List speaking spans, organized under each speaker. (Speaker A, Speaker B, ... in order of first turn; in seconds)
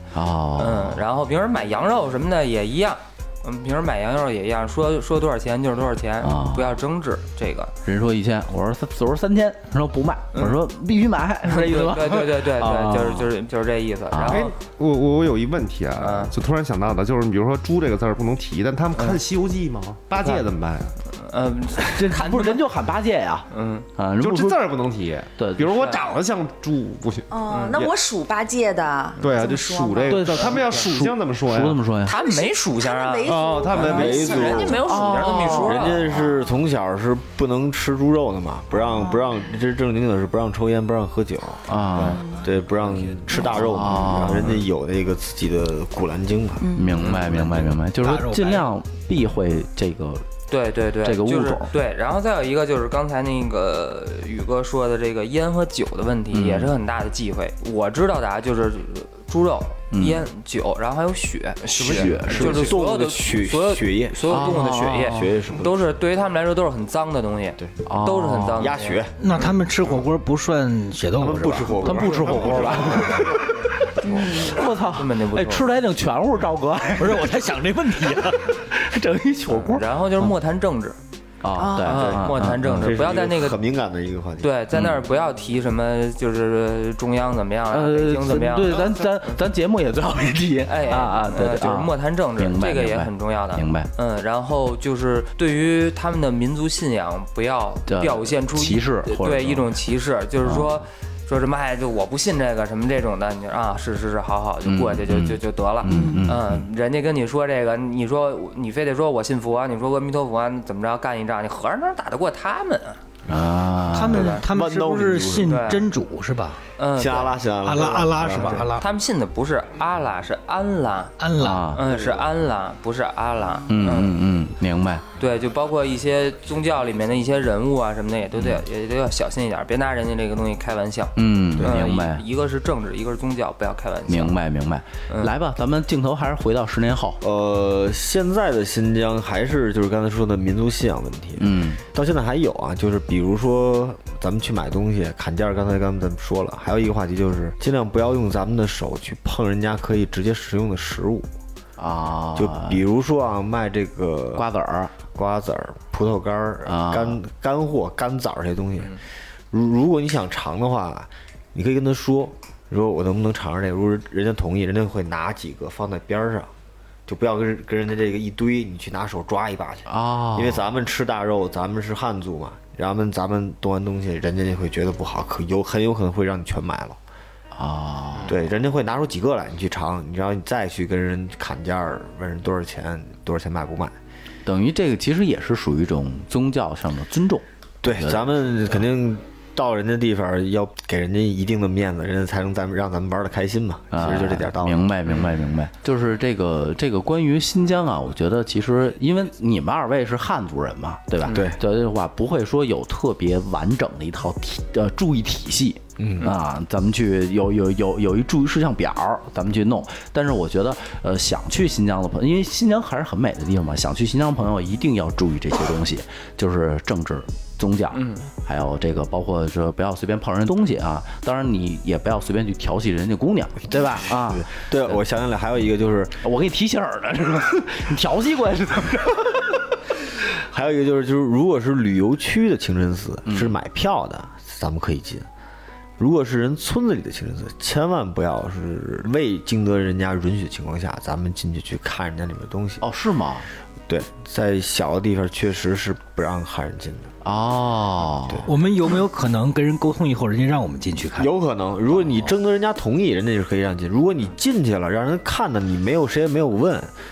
Speaker A: 0.1-1.0, 6.2-6.7, 7.8-13.3, 14.1-14.5, 21.9-24.6, 25.4-25.8, 30.1-32.1, 34.8-35.8, 41.7-42.2, 43.4-44.5, 46.7-50.3, 51.0-51.7, 56.3-56.7, 59.9-60.2, 61.8-62.8, 64.3-65.3, 67.8-68.7, 71.8-77.4, 78.3-80.3, 81.4-83.0, 84.7-85.0, 87.7-93.9, 97.9-99.7, 100.4-100.7, 104.6-106.6, 113.3-114.4, 121.4-121.8, 123.7-125.0, 131.2-132.2, 134.1-137.2, 141.4-141.8, 151.8-152.8, 154.3-154.9, 156.7-157.2, 169.9-170.6, 177.5-178.3, 184.4-188.3, 193.9-225.0, 226.2-229.5, 233.3-233.6, 242.8-243.5, 247.2-248.5, 252.0-252.3
Speaker B: 0.6-7.7, 11.4-14.5, 16.0-16.3, 21.1-22.6, 23.5-23.9, 25.7-26.0, 27.5-27.8, 32.0-36.1, 42.0-42.2, 47.0-47.2, 50.5-69.0, 74.6-75.7, 79.7-81.0, 81.8-83.6, 84.4-89.4, 90.7-113.0, 114.1-114.4, 115.4-115.9, 116.8-117.4, 118.3-124.2, 125.2-134.4, 217.9-218.2
Speaker C: 14.3-20.9, 24.2-27.9, 29.2-31.8, 33.2-34.5
Speaker D: 27.3-30.5, 32.1-36.4, 38.9-39.2, 42.1-42.4, 46.6-47.1, 74.0-74.6, 81.5-82.1, 105.9-106.2
Speaker E: 33.8-34.9, 35.5-46.7, 61.8-65.9, 68.5-69.2, 71.2-73.4, 81.9-84.6, 114.4-115.7, 117.0-118.7, 121.9-122.2, 131.6-131.8, 137.2-151.3, 152.3-154.5, 155.1-166.5, 167.1-177.0, 178.2-184.0, 187.8-194.8, 201.3-201.6, 206.0-206.3, 223.6-226.2, 230.3-235.3, 236.0-242.8, 243.9-247.1, 251.2-256.9
Speaker F: 47.1-48.7, 69.2-71.9, 77.0-78.5, 113.9-116.6, 117.6-118.8, 121.2-121.7, 248.4-251.3